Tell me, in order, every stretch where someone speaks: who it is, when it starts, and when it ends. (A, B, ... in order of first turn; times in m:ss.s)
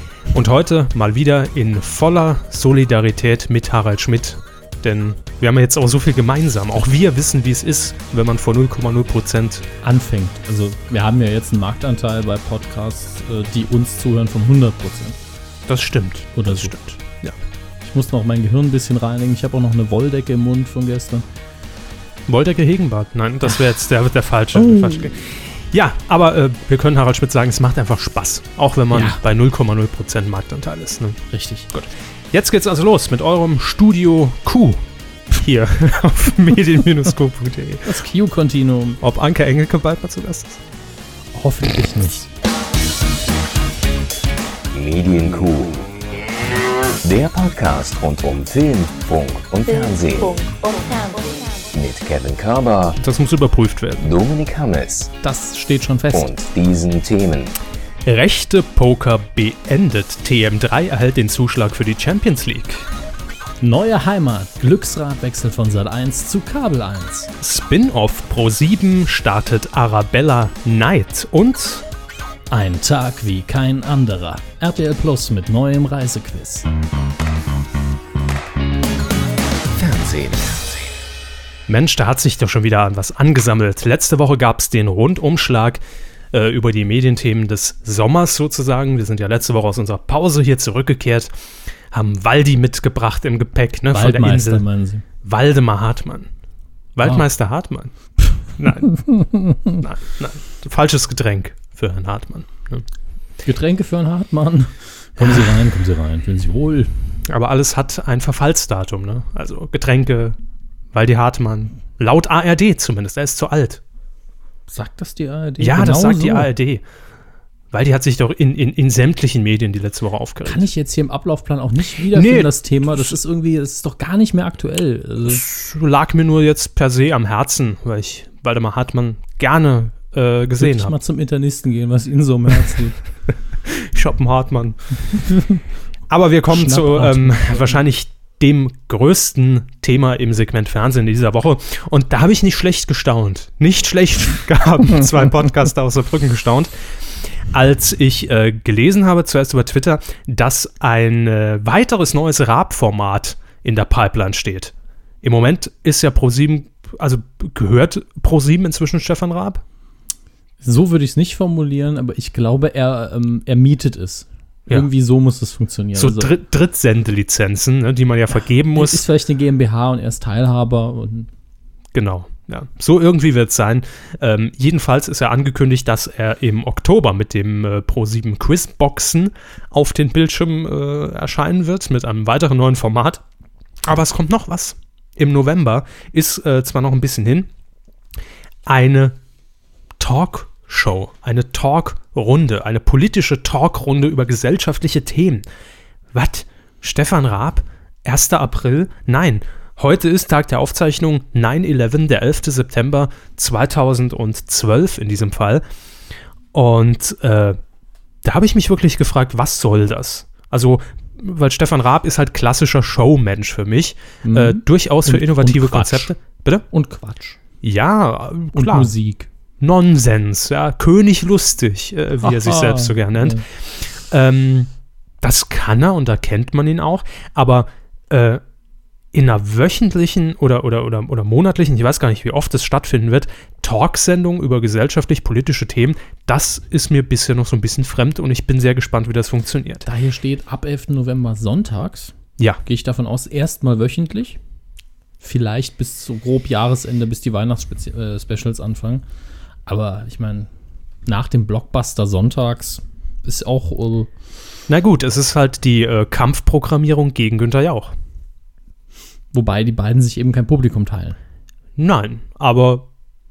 0:00.3-0:09.7 A
0:09.8-0:15.2 B
0:15.7-0:17.4 A
0:16.4-0:16.8 B
0:17.8-0:21.3 B
0:22.3-0:31.2 A
0:24.5-0:25.1 B
0:28.9-0:29.2 B
0:31.3-0:31.7 B
0:31.7-0:38.0 A
0:37.8-0:39.0 B
0:39.0-0:40.6 A
0:41.3-0:42.3 B
0:44.7-0:45.9 C
0:47.0-0:50.4 C
0:49.7-0:51.7 D
0:51.7-0:53.0 C
0:53.0-0:54.2 A
0:54.0-0:55.1 C
0:55.2-0:56.3 B
0:56.1-0:57.5 C
0:58.0-1:02.8 A
1:03.6-1:07.3 B
1:07.4-1:11.8 A
1:12.5-1:16.7 B
1:19.8-1:20.9 C
1:21.7-1:25.8 A
1:26.3-1:31.3 A
1:31.9-1:34.6 A
1:33.9-1:35.0 B
1:35.2-1:36.3 A
1:37.0-1:37.9 A
1:38.6-1:39.0 A
1:38.9-1:39.7 B
1:39.7-1:42.8 A
1:43.4-1:46.9 B
1:45.2-1:45.5 A
1:47.3-1:50.4 A
1:50.9-1:53.8 A
1:54.7-1:56.5 B
1:55.6-1:56.8 A
1:57.7-2:00.7 A
2:00.4-2:05.4 B
2:02.1-2:03.1 A
2:05.2-2:11.0 A
2:10.6-2:13.0 B
2:13.7-2:14.8 A
2:16.1-2:26.7 A
2:16.5-2:17.8 B
2:27.5-2:39.6 A
2:40.6-2:46.3 B
2:46.0-2:49.0 A
2:48.8-2:51.3 B
2:51.9-3:03.2 A
3:03.8-3:07.5 A
3:08.7-3:09.2 A
3:10.0-3:15.4 A
3:16.1-3:25.6 A
3:26.5-3:27.6 A
3:28.2-3:36.6 A
3:34.2-3:36.1 B
3:36.7-3:37.4 B
3:37.6-3:38.9 A
3:38.5-3:39.3 B
3:39.6-3:44.7 A
3:42.2-3:43.4 B
3:45.2-3:48.4 A
3:49.1-3:59.9 A
3:59.9-4:04.4 B
4:05.2-4:09.0 B
4:09.7-4:10.5 B
4:11.1-4:14.1 B
4:14.7-4:17.9 A
4:19.3-4:21.2 B
4:21.8-4:22.9 A